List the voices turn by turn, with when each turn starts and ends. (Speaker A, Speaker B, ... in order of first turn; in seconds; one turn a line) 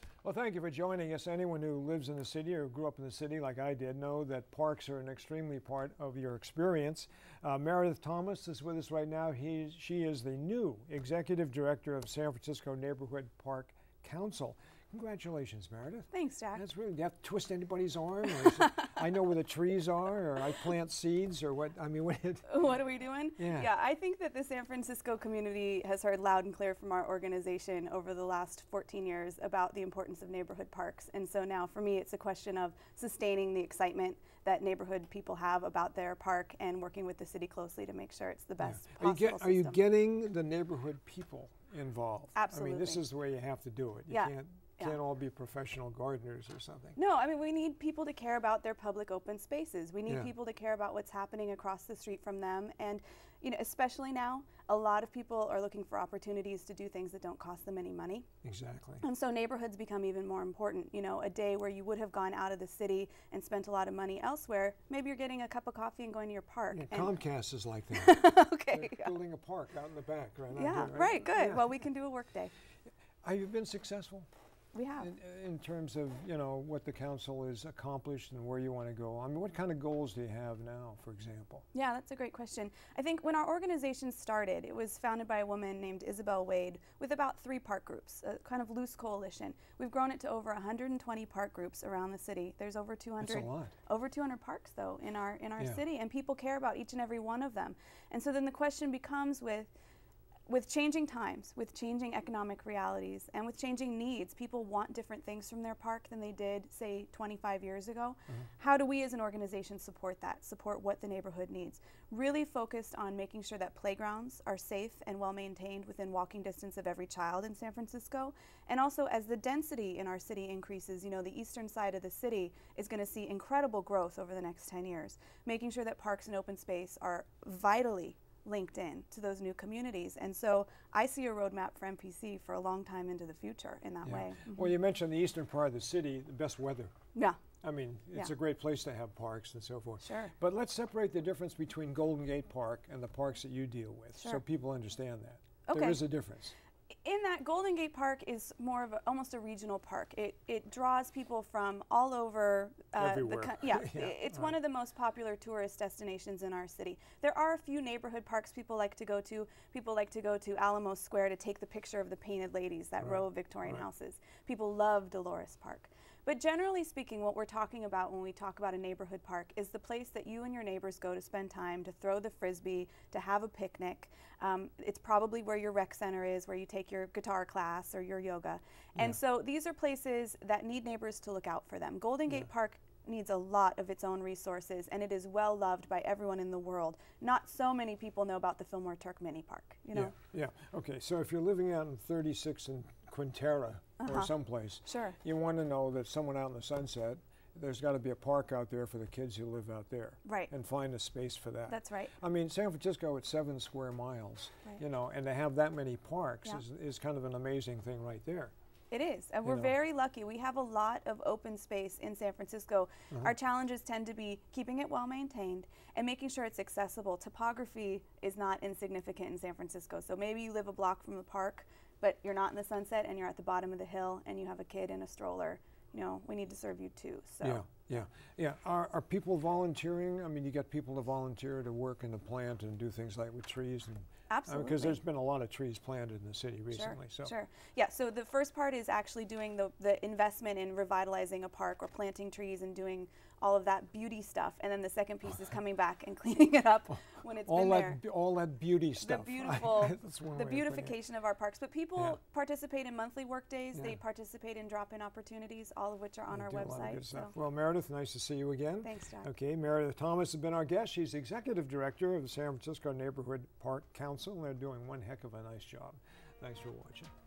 Speaker A: 0.2-22.6
Speaker B: 16.1-16.6
Speaker B: 18.3-18.8
Speaker B: 22.5-39.8
Speaker A: 23.4-23.7
Speaker A: 38.6-47.0
Speaker B: 42.3-43.0
Speaker B: 44.1-45.0
Speaker B: 47.0-58.3
Speaker A: 58.4-59.0
Speaker B: 59.0-67.1
Speaker A: 66.7-71.7
Speaker B: 67.9-69.1
Speaker B: 70.5-72.5
Speaker A: 73.2-74.3
Speaker B: 74.7-75.1
Speaker A: 75.0-81.7
Speaker B: 81.7-99.7
Speaker A: 93.2-93.7
Speaker B: 100.5-134.7
Speaker A: 134.0-136.9
Speaker B: 137.1-137.4
Speaker A: 137.6-146.5
Speaker B: 140.0-140.3
Speaker B: 144.2-144.4
Speaker B: 145.7-146.0
Speaker B: 146.9-190.1
Speaker A: 152.9-154.6
Speaker A: 163.0-163.8
Speaker A: 189.9-208.5
Speaker B: 194.0-195.2
Speaker B: 200.2-200.5
Speaker B: 201.7-202.1
Speaker B: 208.9-227.8
Speaker A: 209.4-209.7
Speaker A: 227.4-237.3
Speaker B: 234.3-235.0
Speaker B: 236.7-248.0
Speaker A: 247.4-251.0
Speaker B: 249.0-257.3
Speaker A: 256.3-267.1
Speaker B: 258.8-259.3